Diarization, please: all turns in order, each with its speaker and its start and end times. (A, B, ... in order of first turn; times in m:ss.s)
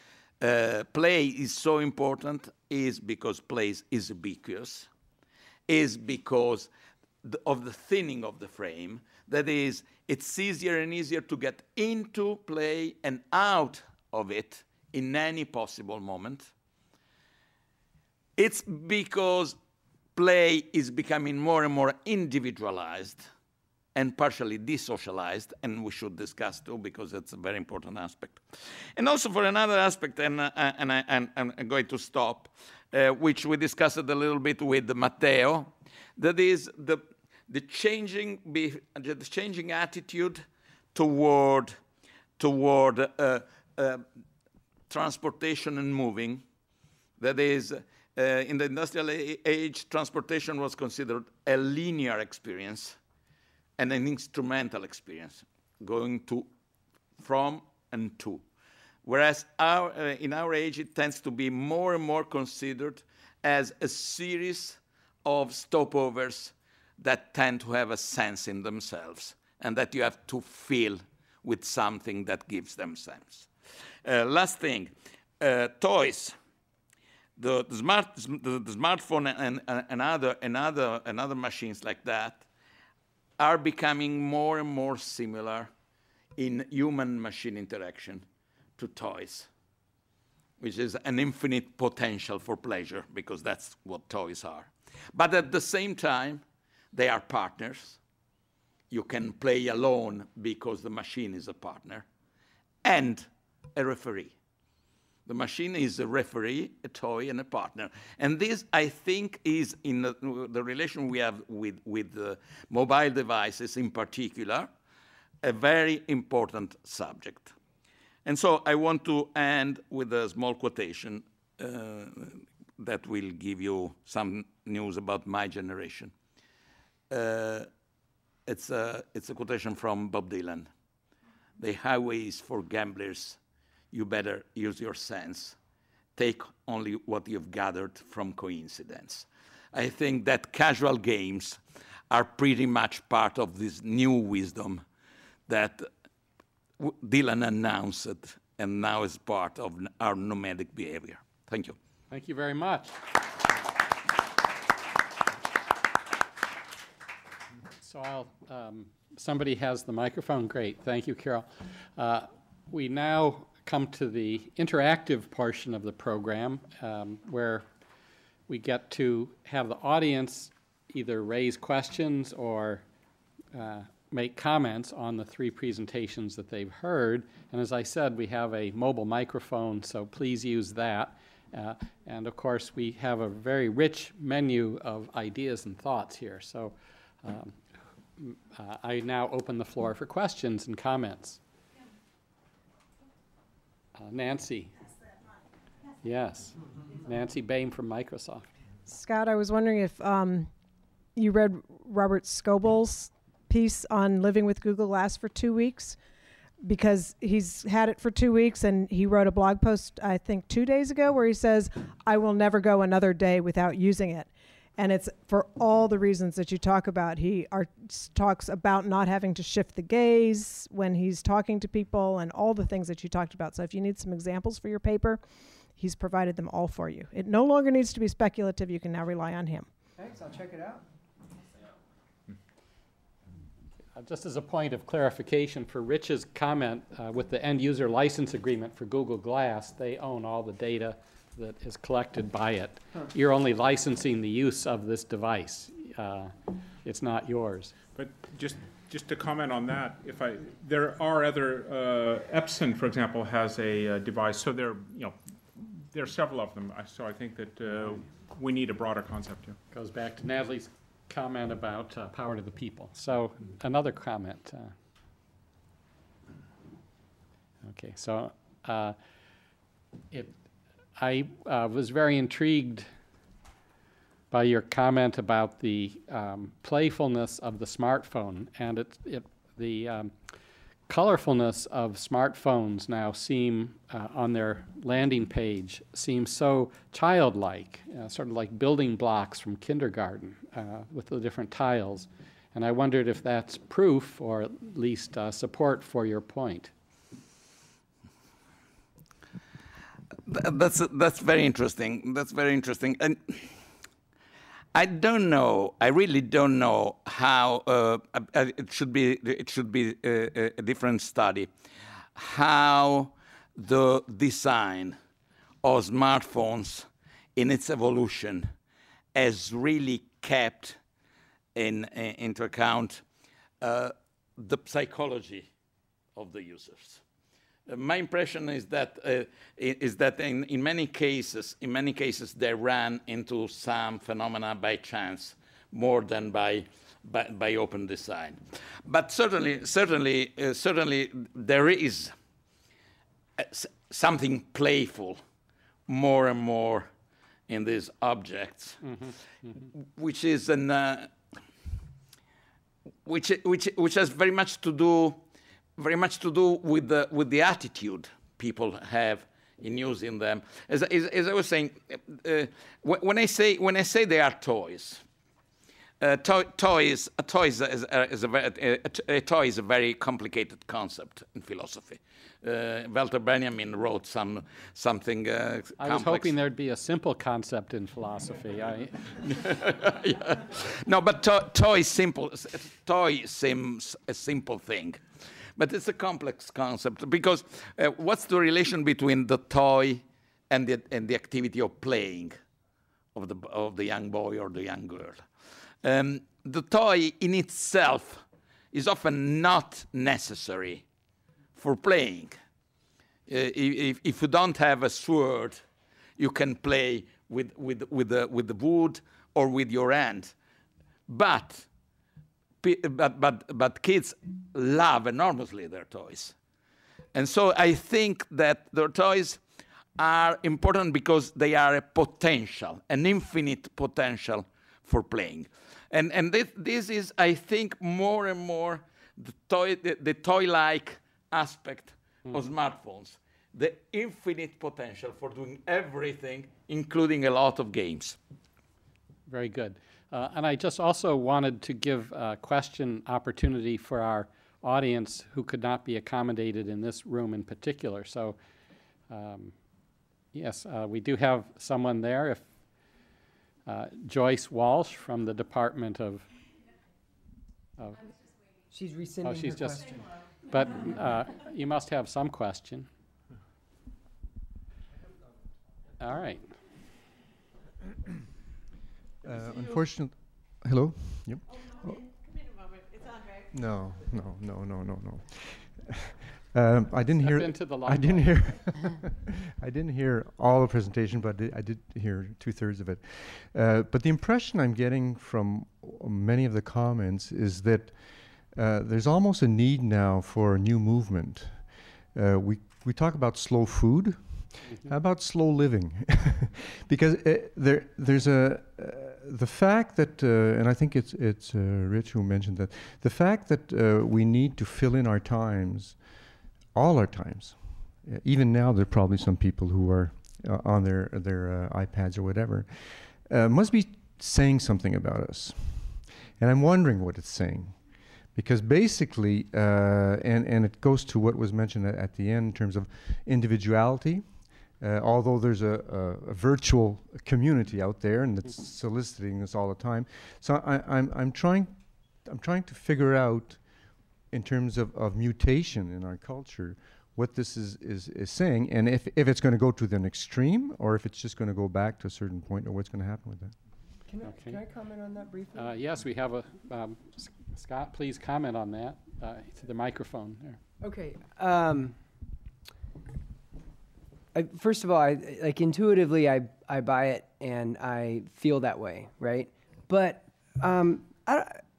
0:00.4-0:04.9 A
0:05.7-0:06.7 A
0:07.2-0:16.5 A
0:18.4-0:19.6 A
0:20.2-0:23.3 A
0:24.0-0:28.4 A
0:29.0-0:41.8 A
0:42.4-0:44.0 A
0:44.9-0:46.4 A
0:47.2-0:53.0 A
0:53.8-0:56.5 A
0:57.2-0:58.4 A
0:59.0-1:13.5 A
1:14.0-1:16.4 A
1:17.4-1:22.5 A
1:23.4-1:25.7 A
1:26.4-1:28.2 A
1:28.8-1:29.5 A
1:30.6-1:38.0 A
1:38.9-1:42.0 A
1:42.8-1:44.3 A
1:45.3-1:54.7 A
1:55.4-1:57.5 A
1:58.2-2:06.1 A
2:07.1-2:07.7 A
2:08.5-2:10.7 A
2:11.6-2:13.4 A
2:13.9-2:15.6 A
2:16.2-2:24.8 A
2:25.5-2:25.9 A
2:26.8-2:31.8 A
2:32.1-2:33.0 B
2:37.8-2:47.7 B
2:48.5-2:52.8 B
2:53.5-3:07.6 B
3:08.2-3:11.4 B
3:14.0-3:14.8 B
3:16.0-3:18.5 B
3:18.9-3:20.5 C
3:21.2-3:26.0 C
3:26.6-3:45.2 C
3:45.8-3:49.7 C
3:50.0-3:50.8 D
3:54.0-4:07.8 B
4:08.0-4:19.6 E
4:19.7-4:24.8 B
4:27.6-4:29.0 B
4:31.0-4:32.9 B
4:34.3-4:40.2 B
4:40.9-4:56.7 B
5:00.3-5:03.6 A
5:04.7-5:11.5 A
5:12.2-5:15.0 A
5:15.6-5:18.5 A
5:19.1-5:20.8 A
5:21.6-5:23.0 A
5:23.6-5:25.5 A
5:26.2-5:27.0 A
5:27.7-5:42.1 A
5:43.4-5:45.2 A
5:45.9-5:46.9 A
5:47.5-5:49.0 A
5:48.8-5:49.7 B
5:49.8-5:51.1 A
5:53.0-5:55.2 A
5:55.8-6:05.0 A
6:06.0-6:16.3 A
6:15.8-6:19.2 B
6:19.3-6:32.4 A
6:33.2-6:35.3 A
6:35.8-6:40.8 A
6:41.6-6:42.4 A
6:43.3-6:45.6 A
6:46.2-6:50.3 A
6:51.1-6:51.7 A
6:52.6-6:56.4 A
6:57.1-6:59.4 A
7:00.0-7:18.2 A
7:19.3-7:28.4 B
7:29.1-7:29.6 B
7:30.3-7:32.5 B
7:33.7-7:36.2 B
7:37.8-7:38.0 B
7:38.7-7:40.1 D
7:39.2-7:42.9 B
7:46.0-7:46.5 B
7:49.2-7:52.1 F
7:53.5-8:08.0 F
7:57.2-7:58.4 B
8:08.5-8:26.0 F
8:26.7-8:37.8 F
8:38.3-8:53.6 F
8:54.3-9:03.6 F
9:04.1-9:05.8 D
9:04.2-9:04.6 B
9:05.6-9:10.6 B
9:10.8-9:12.0 D
9:14.3-9:21.6 D